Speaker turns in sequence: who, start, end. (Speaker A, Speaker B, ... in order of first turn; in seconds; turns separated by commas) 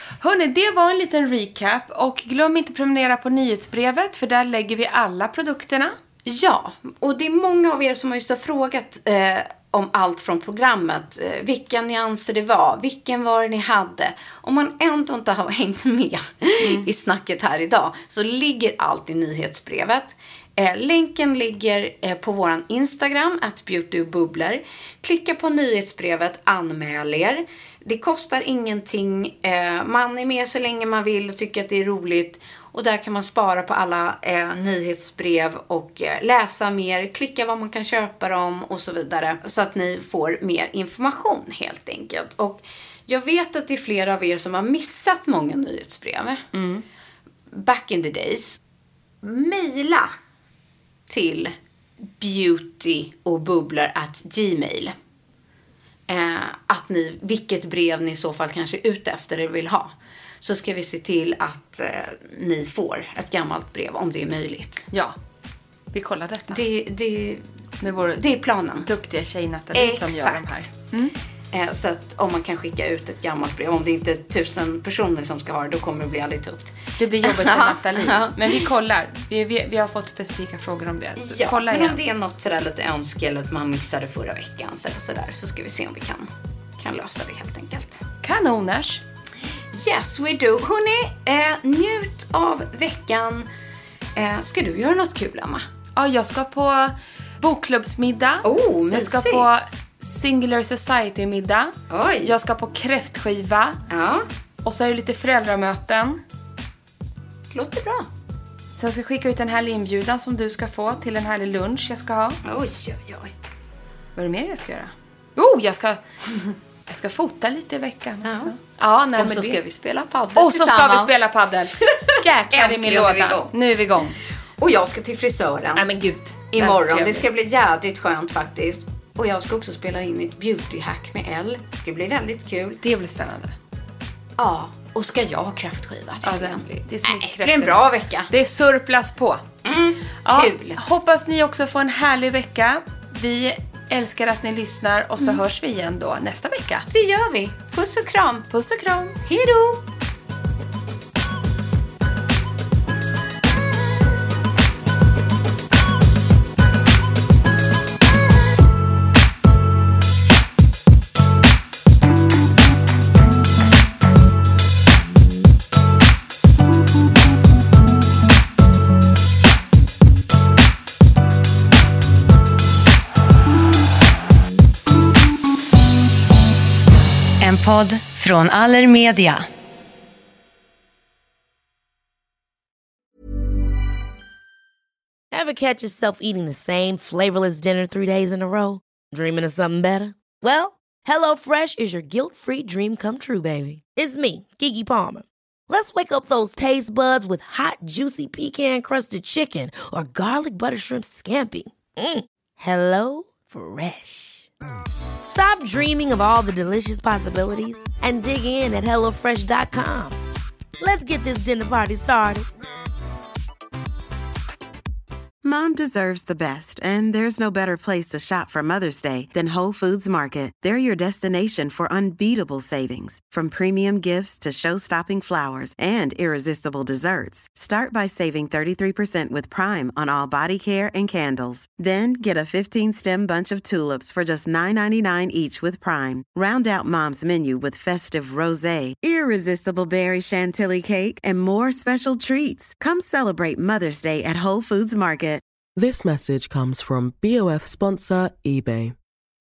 Speaker A: 0.2-6.0, Speaker B: 6.3-46.5, Speaker A: 16.6-16.9, Speaker A: 46.5-46.8, Speaker B: 47.5-48.6, Speaker B: 49.2-50.1, Speaker B: 51.1-51.5, Speaker B: 52.2-54.9, Speaker B: 56.1-64.9, Speaker A: 65.9-66.6, Speaker B: 66.5-67.4, Speaker A: 67.8-68.2, Speaker B: 68.0-68.9, Speaker A: 68.8-71.2, Speaker B: 69.7-70.7, Speaker B: 71.5-78.7, Speaker A: 77.0-82.0, Speaker B: 81.2-88.0, Speaker A: 88.2-89.0, Speaker B: 89.7-93.5, Speaker B: 94.2-95.7, Speaker A: 96.0-103.8, Speaker B: 98.4-99.5, Speaker B: 101.9-102.3, Speaker B: 103.9-104.3, Speaker A: 104.6-106.2, Speaker B: 107.5-108.1, Speaker A: 108.8-112.4, Speaker B: 112.4-113.3, Speaker A: 114.2-116.0, Speaker A: 116.9-119.6, Speaker B: 118.2-118.5, Speaker B: 119.2-121.1, Speaker A: 120.4-124.2, Speaker B: 121.8-123.5, Speaker B: 124.6-125.9, Speaker A: 125.8-127.3, Speaker B: 126.5-132.8, Speaker A: 132.8-133.6, Speaker B: 134.4-138.3, Speaker A: 136.2-139.4, Speaker B: 139.6-140.8, Speaker A: 140.2-146.9, Speaker B: 146.9-148.5, Speaker A: 148.5-149.2, Speaker B: 149.2-149.8, Speaker C: 177.4-179.5, Speaker D: 185.3-204.5, Speaker D: 205.2-210.2, Speaker D: 210.8-212.5, Speaker E: 215.4-245.4, Speaker F: 245.8-248.9